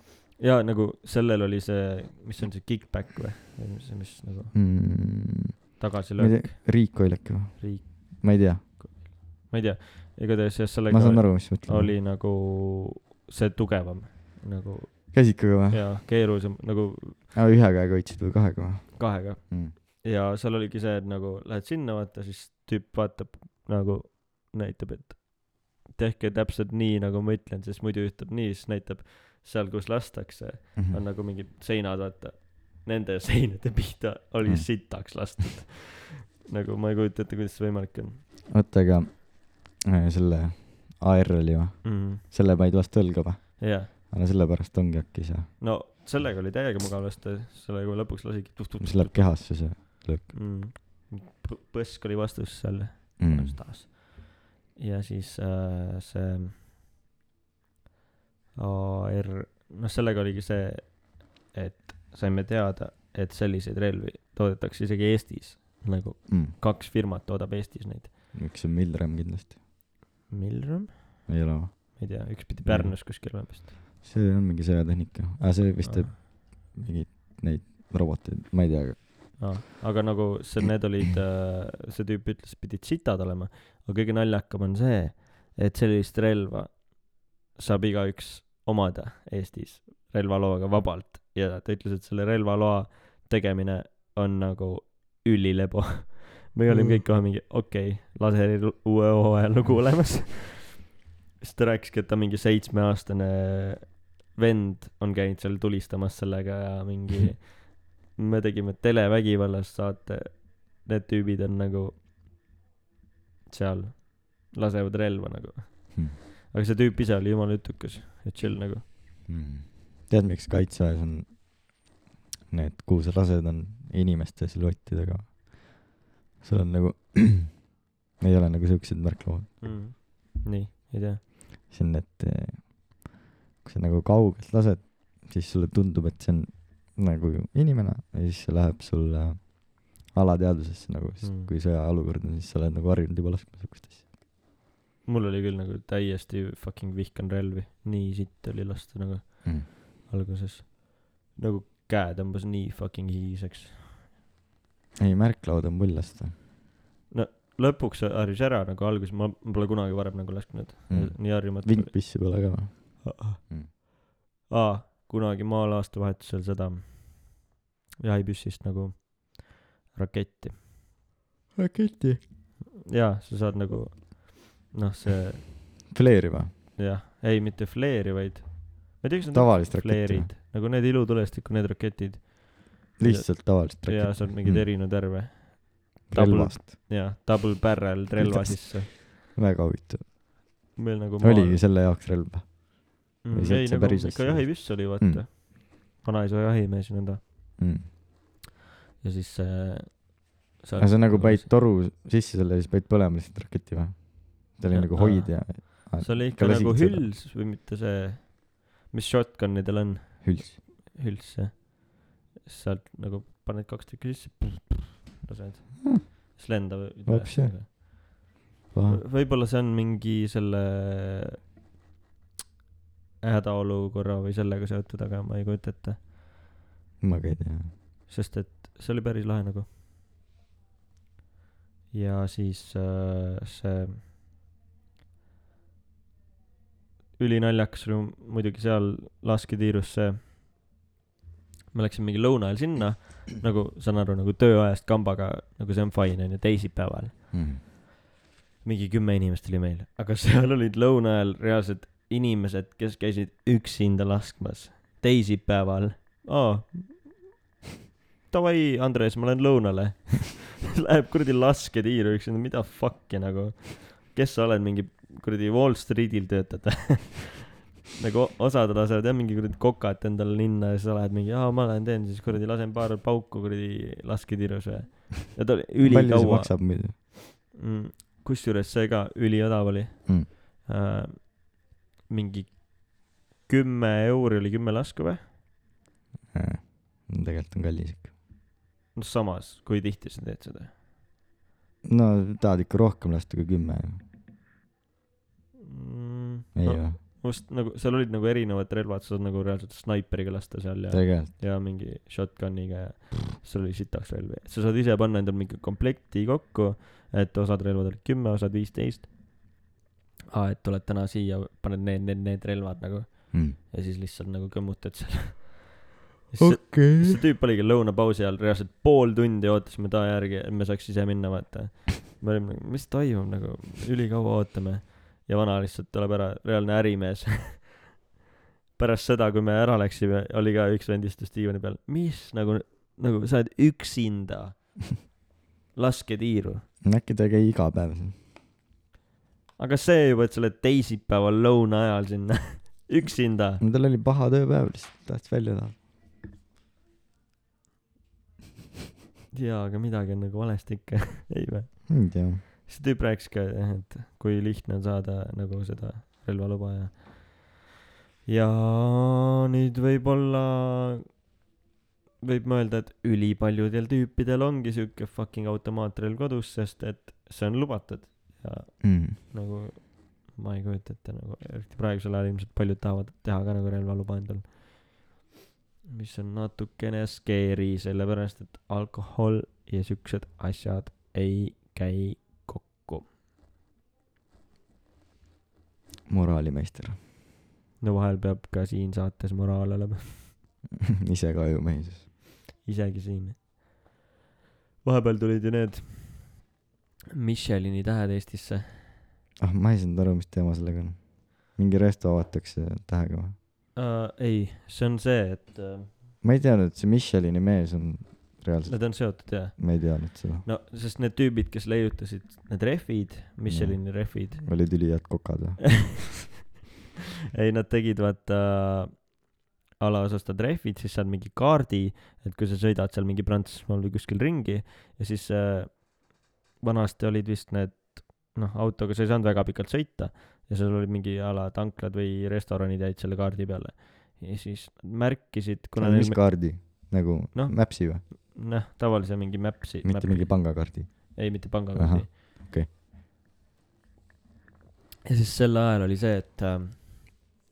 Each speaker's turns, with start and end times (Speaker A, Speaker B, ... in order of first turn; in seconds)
Speaker A: 0.4-4.5, 5.8-7.0, 7.6-17.2, 19.0-38.2, 41.8-42.2, 43.6-43.9, 45.6-56.5, 58.6-68.1, 70.3-71.3, 72.0-73.7, 75.8-76.1, 79.4-112.0, 113.5-118.8, 129.6-131.2, 141.2-141.5, 145.1-154.0, 157.1-162.5, 163.0-163.9, 164.5-167.5, 168.0-170.6, 172.9-175.6, 176.8-188.9, 190.8-191.6, 193.2-197.2, 199.0-201.5, 204.7-218.3, 218.9-221.4, 223.2-226.0, 228.1-229.7, 231.9-234.0, 237.2-240.2, 241.7-247.7, 248.6-257.3, 258.3-285.2, 288.9-290.7, 295.6-309.1, 310.3-315.8, 316.3-327.9, 328.8-335.1, 335.8-336.7, 339.6-343.6, 349.3-357.5, 358.3-361.0, 362.2-375.0, 375.9-383.1, 387.8-390.3, 392.6-393.4, 394.8-396.4, 397.2-399.0, 403.8-405.9, 408.7-414.5, 417.4-419.3, 419.8-442.1, 445.1-447.3
Speaker B: 4.5-8.8, 10.9-12.0, 15.1-16.0, 17.3-19.8, 30.8-31.0, 34.5-34.8, 38.5-45.5, 48.8-50.4, 53.2-53.6, 66.3-66.5, 68.3-69.6, 71.3-79.5, 96.7-97.0, 119.3-121.8, 122.5-129.8, 131.7-133.1, 133.6-144.1, 155.0-156.3, 160.9-163.7, 171.6-172.2, 175.9-176.5, 179.3-180.3, 183.0-184.7, 186.1-186.8, 188.2-190.2, 191.2-195.2, 197.6-197.8, 200.8-207.1, 210.2-210.6, 217.1-217.8, 218.7-219.0, 227.0-227.7, 247.3-247.6, 275.8-276.9, 286.3-288.1, 291.8-294.0, 296.6-297.0, 300.9-301.3, 316.4-317.2, 336.8-338.2, 343.6-345.8, 351.9-352.4, 368.8-369.2, 386.1-387.0, 391.0-392.1, 399.4-403.4, 406.2-410.5, 413.5-415.9, 435.8-438.0, 439.8-442.7